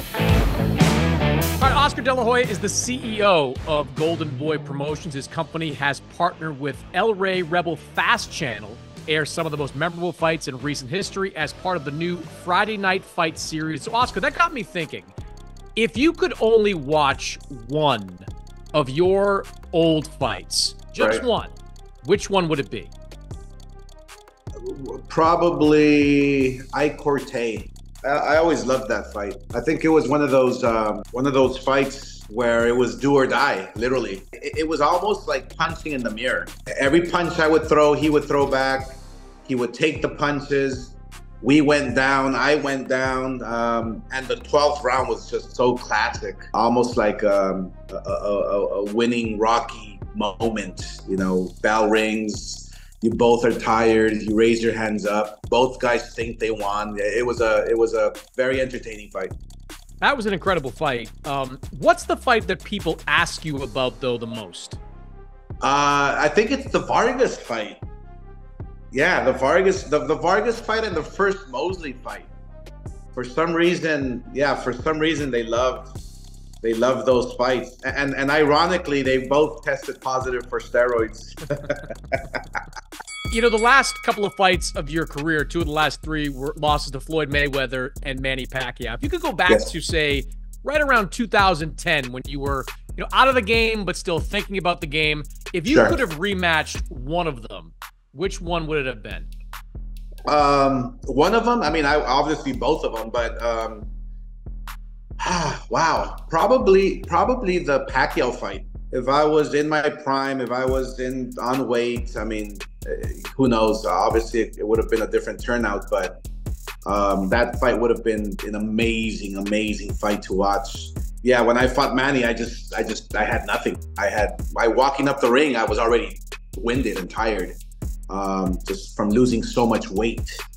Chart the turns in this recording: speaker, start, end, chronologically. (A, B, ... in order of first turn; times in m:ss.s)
0:01.6-0:15.1 A
0:15.8-0:22.9 A
0:21.0-0:21.2 B
0:24.6-0:59.3 B
1:00.0-1:04.8 A
1:05.6-1:07.8 B
1:08.9-1:12.3 B
1:13.1-1:15.9 B
1:16.6-1:22.6 B
1:23.3-1:39.3 A
1:35.7-1:36.0 B
1:40.3-1:43.9 B
1:45.2-1:56.2 B
1:56.9-2:07.6 B
2:08.1-2:10.4 B